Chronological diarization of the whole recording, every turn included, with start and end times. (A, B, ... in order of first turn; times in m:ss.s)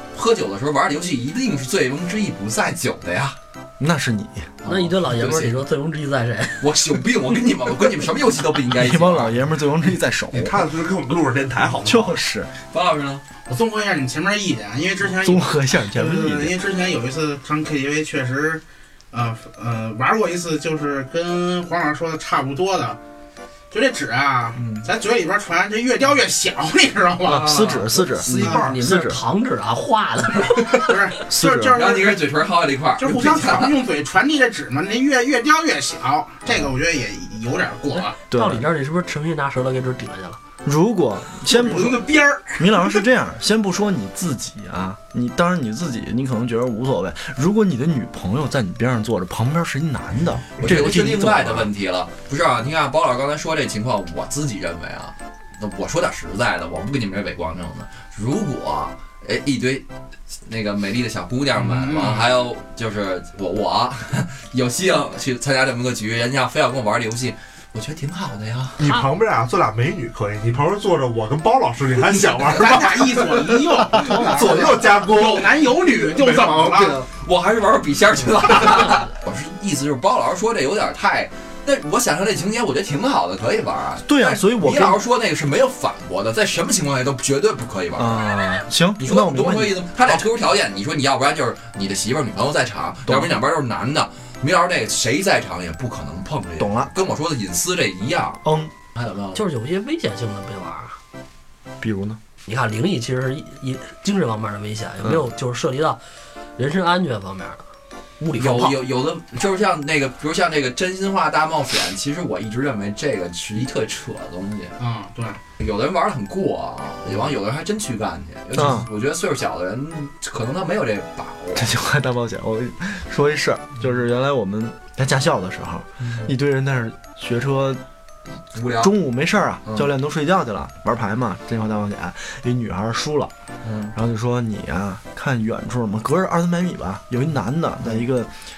0:00.1-0:03.4 A
0:03.8-0:04.5 B
0:04.6-0:05.6 A
0:04.6-0:06.7 C
0:06.6-0:09.4 A
0:08.7-0:10.6 B
0:10.3-0:12.2 D
0:11.8-0:12.5 B
0:12.7-0:13.2 A
0:13.5-0:23.0 E
0:15.1-0:16.5 B
0:23.7-0:28.6 E
0:24.6-0:24.8 A
0:27.2-0:29.2 B
0:28.1-0:28.8 D
0:28.3-0:31.0 C
0:30.7-0:32.3 E
0:31.3-0:31.8 B
0:31.7-0:33.8 A
0:33.0-0:38.2 E
0:37.9-0:40.4 C
0:38.3-0:38.6 B
0:40.6-0:51.7 B
0:41.5-0:43.0 E
0:50.6-0:59.8 A
1:00.4-1:08.8 A
1:01.6-1:02.3 E
1:08.8-1:16.9 D
1:08.8-1:09.1 C
1:12.4-1:17.0 E
1:14.0-1:14.9 C
1:16.7-1:28.3 A
1:24.0-1:25.0 B
1:28.0-1:29.9 B
1:29.0-1:38.4 A
1:33.1-1:33.3 B
1:36.6-1:36.9 B
1:38.4-1:38.7 B
1:38.9-1:39.4 A
1:39.3-1:41.0 C
1:41.8-1:42.2 B
1:42.4-1:46.0 C
1:46.6-1:47.6 C
1:48.2-1:48.8 C
1:48.4-1:54.8 A
1:54.8-1:55.4 E
1:55.6-2:01.7 A
1:58.5-1:58.9 B
2:01.5-2:07.8 B
2:06.0-2:06.3 A
2:08.5-2:08.9 A
2:08.8-2:13.3 B
2:09.6-2:09.9 A
2:13.6-2:13.9 A
2:13.9-2:18.3 B